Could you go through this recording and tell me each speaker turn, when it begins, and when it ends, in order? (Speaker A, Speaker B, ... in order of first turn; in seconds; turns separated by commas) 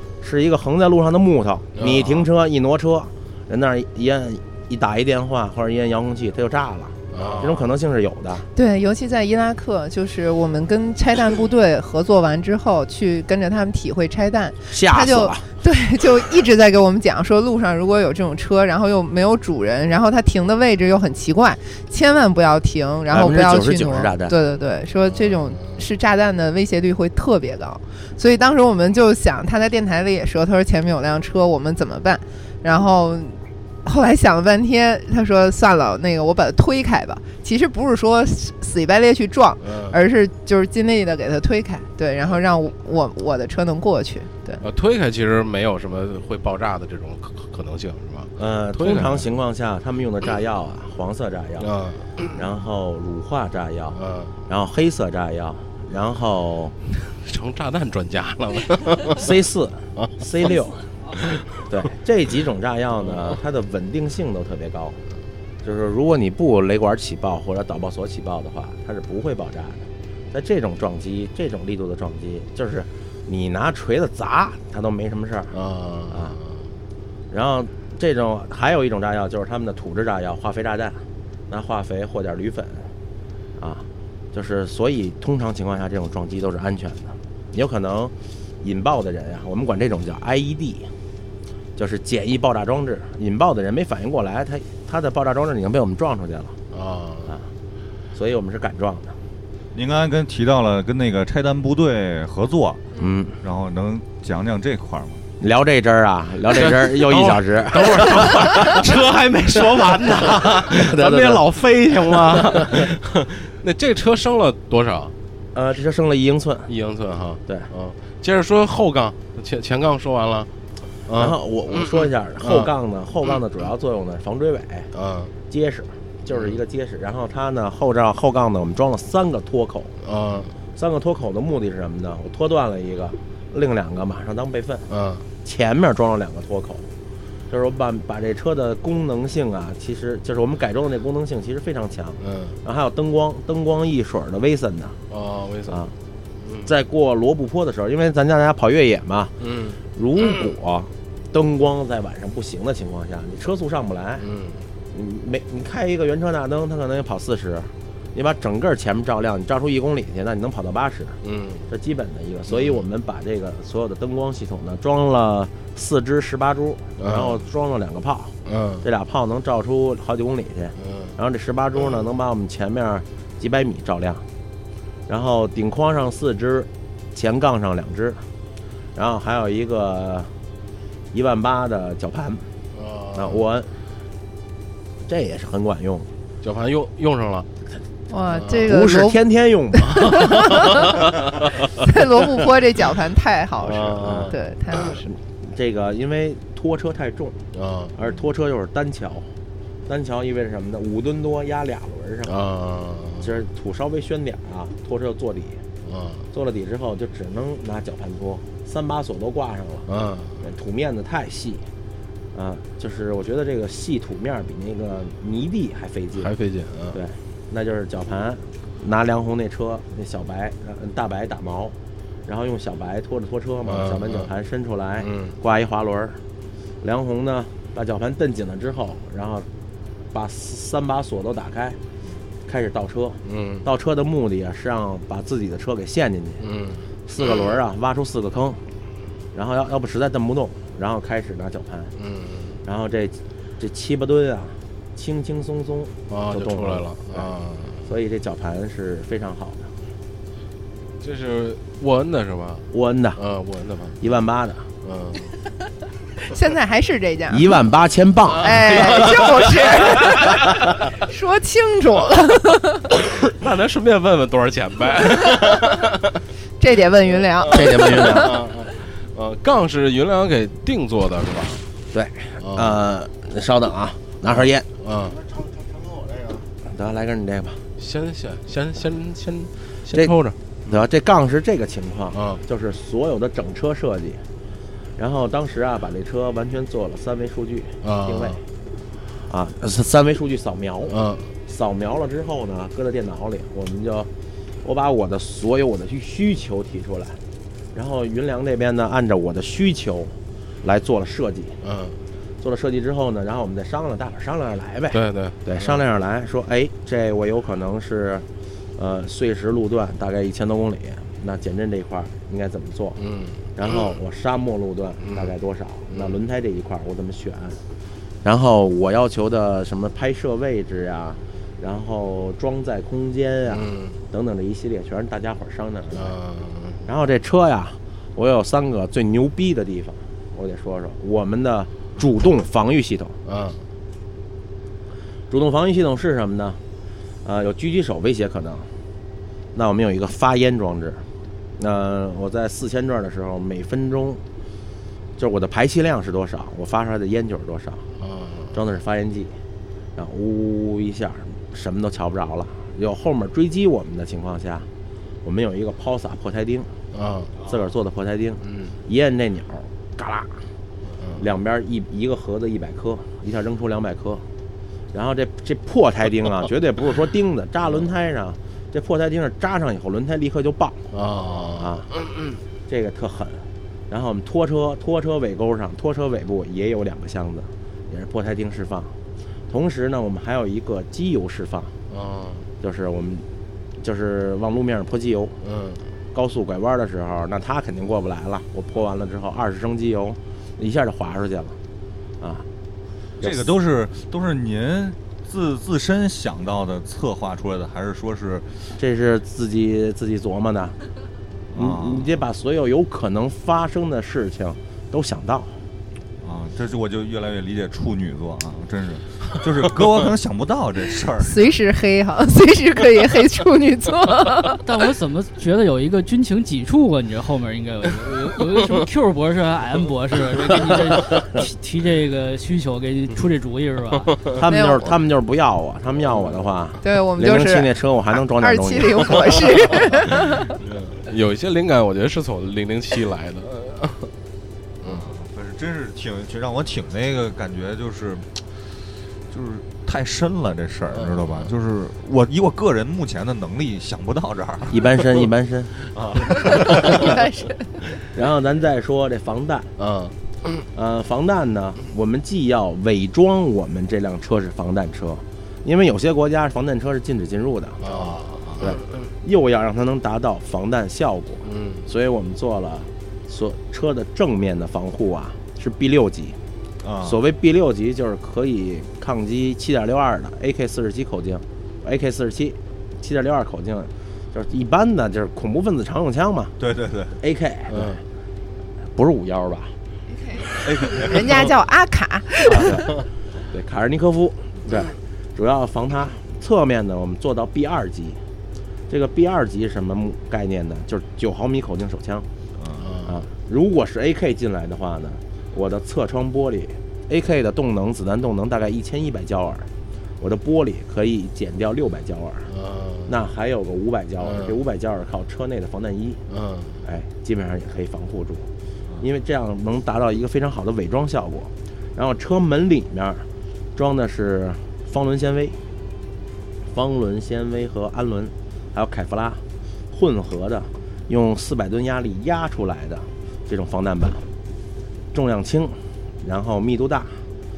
Speaker A: 0.2-8.5, Speaker B: 1.8-2.3, Speaker B: 7.1-7.7, Speaker C: 8.6-44.6, Speaker A: 14.7-15.5, Speaker A: 23.1-24.4, Speaker B: 25.1-25.8, Speaker B: 39.6-40.0, Speaker B: 44.6-49.3, Speaker A: 48.4-51.7, Speaker B: 51.6-52.4, Speaker A: 52.3-56.8, Speaker B: 53.9-54.4, Speaker B: 57.0-59.3, Speaker A: 59.1-60.8, Speaker A: 61.6-65.0, Speaker B: 63.0-63.4, Speaker A: 65.6-76.4, Speaker B: 75.5-76.7, Speaker A: 77.3-82.9, Speaker A: 83.6-90.9, Speaker A: 91.8-96.6, Speaker B: 96.7-97.3, Speaker A: 98.1-99.2, Speaker D: 99.7-102.8, Speaker A: 103.0-103.4, Speaker D: 103.4-105.2, Speaker A: 105.4-108.9, Speaker B: 106.5-115.2, Speaker A: 110.7-111.5, Speaker A: 112.3-112.8, Speaker A: 115.5-116.7, Speaker B: 116.7-120.5, Speaker B: 121.1-122.7, Speaker A: 121.1-124.9, Speaker B: 124.9-125.3, Speaker A: 125.5-130.0, Speaker B: 126.3-126.6, Speaker B: 130.0-130.6, Speaker A: 130.8-134.9, Speaker B: 134.9-135.3, Speaker A: 135.4-136.9, Speaker A: 137.5-145.0, Speaker B: 142.2-142.6, Speaker B: 145.1-145.9, Speaker A: 145.7-145.9, Speaker B: 146.4-146.7, Speaker A: 146.6-154.3, Speaker B: 149.4-150.5, Speaker B: 154.2-154.7, Speaker A: 154.9-174.2, Speaker B: 161.2-161.7, Speaker B: 162.5-162.8, Speaker B: 167.0-167.4, Speaker B: 168.4-168.8, Speaker B: 170.8-171.2, Speaker A: 175.1-178.2, Speaker A: 178.9-180.3, Speaker A: 181.1-182.5, Speaker B: 182.7-183.4, Speaker A: 183.1-183.7, Speaker A: 185.1-186.1, Speaker B: 186.4-187.5, Speaker C: 188.1-189.2, Speaker B: 188.3-188.7, Speaker A: 188.6-190.4, Speaker C: 189.8-190.8, Speaker C: 191.9-195.1, Speaker B: 193.6-194.4, Speaker A: 194.0-199.3, Speaker B: 197.5-197.9, Speaker A: 199.9-202.4, Speaker B: 202.3-203.3, Speaker A: 203.2-205.6, Speaker B: 205.8-206.3, Speaker A: 206.3-211.7, Speaker B: 209.9-210.4, Speaker A: 212.3-216.3, Speaker B: 216.2-217.0, Speaker A: 216.9-226.2, Speaker B: 223.7-224.3, Speaker B: 225.0-225.4, Speaker A: 226.8-229.5, Speaker A: 230.1-231.8, Speaker A: 232.5-236.5, Speaker B: 233.2-233.7, Speaker B: 236.4-236.9, Speaker A: 237.1-238.6, Speaker A: 239.3-241.9, Speaker B: 242.0-242.6, Speaker A: 242.6-247.3, Speaker B: 246.1-247.9, Speaker A: 247.8-249.7, Speaker B: 251.0-254.0, Speaker A: 252.7-253.2, Speaker A: 254.0-254.7, Speaker B: 254.8-255.3, Speaker C: 256.3-257.5, Speaker A: 257.3-259.1, Speaker C: 258.4-260.4, Speaker B: 258.5-260.0, Speaker C: 261.0-262.9, Speaker B: 263.0-266.2, Speaker C: 266.6-268.4, Speaker B: 267.1-271.7, Speaker A: 267.5-268.4, Speaker A: 271.9-274.7, Speaker B: 272.4-272.8, Speaker B: 274.4-275.3, Speaker A: 276.6-277.6, Speaker B: 277.8-280.8, Speaker A: 280.7-284.2, Speaker B: 282.1-282.4, Speaker A: 285.0-288.4, Speaker B: 287.8-288.4, Speaker A: 289.3-294.1, Speaker B: 290.9-291.3, Speaker A: 294.6-297.2, Speaker A: 297.7-301.6, Speaker B: 301.6-302.0, Speaker A: 302.4-313.0, Speaker B: 304.9-305.8, Speaker B: 313.0-313.9, Speaker A: 313.6-317.6, Speaker B: 315.0-315.3, Speaker B: 315.9-316.2, Speaker A: 318.2-326.2, Speaker B: 323.5-324.0, Speaker B: 325.9-326.9, Speaker A: 326.9-333.2, Speaker B: 333.3-333.6, Speaker A: 335.3-336.6, Speaker A: 337.2-338.8, Speaker A: 339.5-344.2, Speaker A: 345.2-347.9, Speaker B: 348.0-348.6, Speaker A: 348.5-349.4, Speaker A: 350.0-354.7, Speaker A: 355.2-356.8, Speaker B: 356.9-357.3, Speaker A: 357.5-360.5, Speaker B: 358.4-358.8, Speaker B: 360.9-361.3, Speaker A: 361.2-364.3, Speaker A: 364.9-370.9, Speaker B: 370.9-372.4, Speaker A: 371.5-371.9, Speaker A: 372.7-378.9, Speaker A: 379.5-381.8, Speaker B: 381.9-382.5, Speaker A: 382.6-383.3, Speaker A: 383.8-385.4, Speaker B: 385.4-385.8, Speaker A: 386.1-391.6, Speaker A: 392.2-392.5, Speaker A: 393.2-393.4, Speaker D: 393.2-398.7, Speaker A: 398.8-400.8, Speaker D: 401.5-402.1, Speaker A: 401.6-405.6, Speaker D: 406.2-411.4, Speaker C: 411.2-414.6, Speaker E: 414.6-424.3, Speaker B: 418.0-418.3, Speaker A: 424.3-429.4, Speaker C: 424.5-424.9, Speaker C: 426.8-430.6, Speaker B: 430.6-434.1, Speaker B: 434.8-435.1, Speaker D: 434.8-445.3, Speaker B: 440.9-441.5, Speaker A: 444.7-445.7, Speaker D: 445.8-447.1, Speaker C: 446.9-447.8, Speaker A: 448.1-449.7, Speaker B: 449.8-450.6, Speaker A: 450.7-457.9, Speaker B: 457.8-459.0, Speaker D: 458.4-458.8, Speaker A: 458.6-466.4, Speaker B: 461.4-461.9, Speaker D: 466.8-467.2, Speaker A: 467.0-476.5, Speaker D: 476.6-477.1, Speaker A: 477.2-478.0, Speaker B: 477.7-478.0, Speaker A: 478.9-479.8, Speaker C: 480.3-482.8, Speaker A: 480.4-480.7, Speaker D: 480.6-481.5, Speaker A: 482.5-482.8, Speaker A: 483.5-488.2, Speaker A: 488.9-492.3, Speaker D: 492.6-492.9, Speaker B: 492.8-493.1, Speaker A: 493.0-499.7, Speaker A: 500.2-502.5, Speaker B: 502.5-503.1, Speaker A: 503.1-506.2, Speaker B: 504.2-504.5, Speaker B: 506.3-506.8, Speaker A: 506.8-508.5, Speaker A: 509.0-515.6, Speaker A: 516.7-524.3, Speaker A: 525.1-527.3